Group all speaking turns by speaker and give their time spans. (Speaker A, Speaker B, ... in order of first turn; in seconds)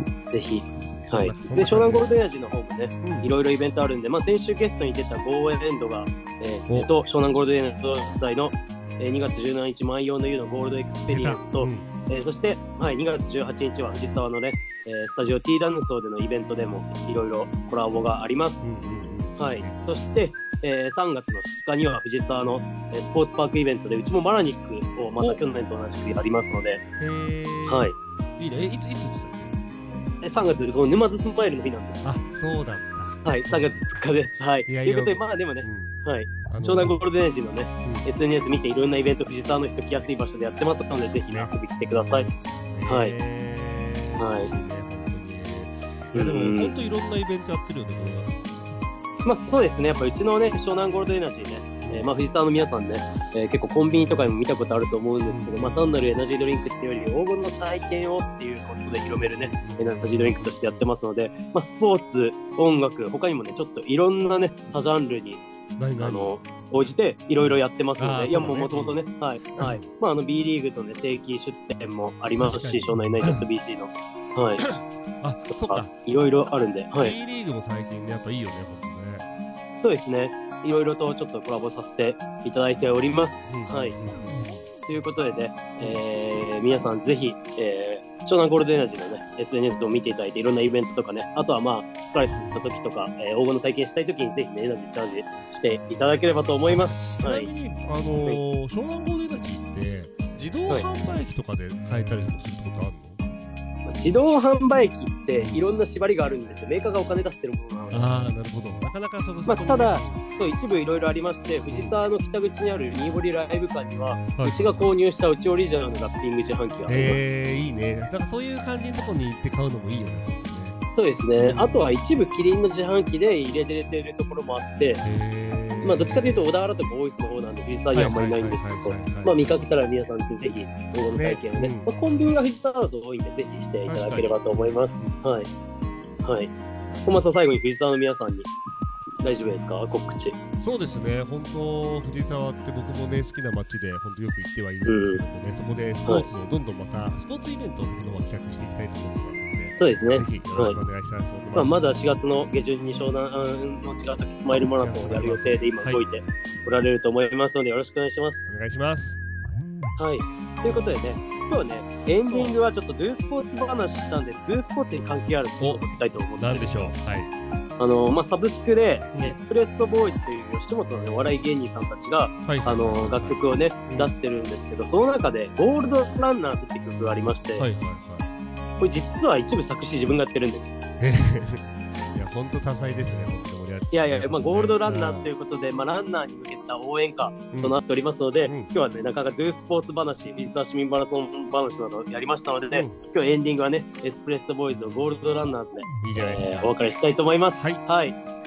Speaker A: 0.3-18.7, 19.4-26.8, 27.7-27.9, 30.2-32.1, 33.2-42.3, 42.9-43.1, 44.2-44.5, 46.1-46.8, 49.2-65.4, 66.0-74.7, 75.5-77.2, 79.8-84.0, 84.9-97.5, 103.9-108.1, 109.5-117.2, 120.9-125.0, 125.8-135.5, 136.2-136.5, 137.1-138.5, 139.2-140.4, 144.9-145.2, 149.8-150.8, 151.6-158.4, 160.0-167.0, 167.8-177.7, 178.8-180.8, 183.9-198.2
Speaker B: 1.1-2.2, 3.0-3.3, 11.1-11.9, 18.6-19.8, 27.0-29.6, 32.0-33.9, 34.7-37.0, 37.8-38.1, 41.3-41.5, 42.2-48.4, 51.8-52.1, 55.3-56.0, 59.2-60.9, 65.8-66.4, 67.4-69.0, 69.5-69.8, 72.4-73.5, 74.6-76.0, 77.0-79.3, 83.5-84.7, 92.3-92.7, 96.7-103.2, 105.4-105.6, 107.9-110.2, 111.7-112.0, 114.3-114.9, 116.9-120.8, 121.4-121.8, 125.0-126.5, 127.9-129.5, 131.2-131.9, 133.8-135.2, 136.9-137.3, 140.6-152.0, 154.5-156.7, 158.5-159.2, 160.6-160.9, 162.2-162.6, 165.6-167.3, 172.4-174.1, 177.6-178.3, 181.0-185.3, 187.5-187.8, 188.4-188.7, 192.7-193.0, 196.0-196.7